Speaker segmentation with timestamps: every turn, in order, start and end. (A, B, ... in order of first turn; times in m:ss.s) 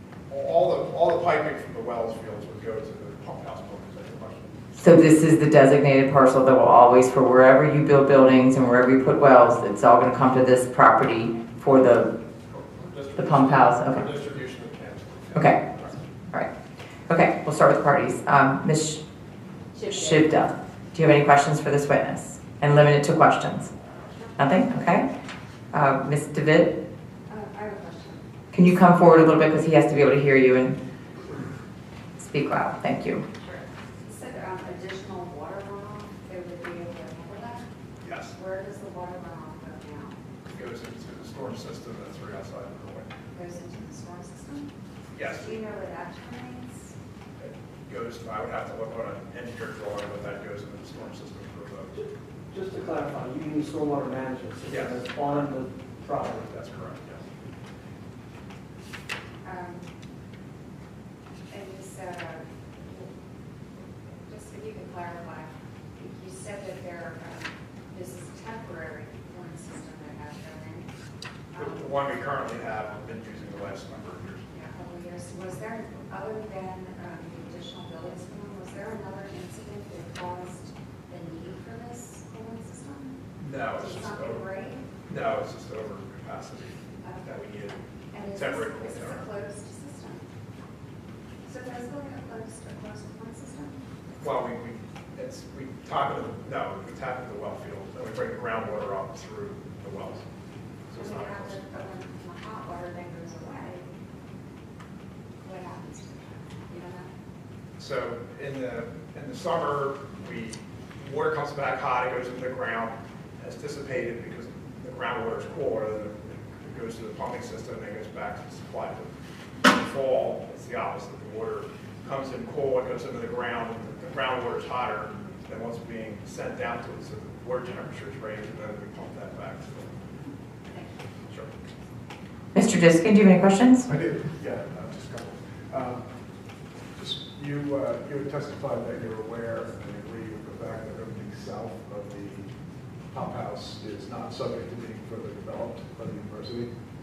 0:00.3-0:04.9 A
0:04.8-0:12.1 B
0:12.5-0:16.0 A
0:13.2-0:14.1 B
0:15.3-0:15.6 B
0:17.1-0:19.0 B
0:19.8-0:23.7 B
0:24.4-0:25.1 B
0:25.7-0:26.7 B
0:27.3-0:28.2 C
0:28.5-0:30.8 B
0:32.2-0:33.2 B
0:33.4-0:37.7 C
0:38.0-0:38.4 A
0:38.3-0:40.2 C
0:40.5-0:43.1 A
0:43.3-0:44.7 C
0:45.2-0:45.7 A
0:45.3-0:47.0 C
0:47.4-0:52.0 A
0:52.5-0:56.5 D
0:54.7-0:55.5 A
0:56.1-0:57.2 A
0:59.4-0:59.8 C
1:01.5-1:03.1 C
1:04.3-1:10.9 C
1:11.5-1:12.2 C
1:11.6-1:14.4 A
1:14.5-1:24.9 C
1:23.4-1:24.5 A
1:25.0-1:29.3 A
1:27.0-1:27.3 C
1:28.1-1:30.2 C
1:31.4-1:34.3 C
1:34.2-1:40.2 A
1:40.9-1:41.7 A
1:40.9-1:43.9 C
1:45.4-1:47.1 C
1:47.8-1:59.1 A
1:59.6-2:09.9 A
2:10.7-2:11.0 C
2:12.5-2:13.9 B
2:13.9-2:16.0 E
2:17.0-2:22.5 E
2:23.1-2:26.7 E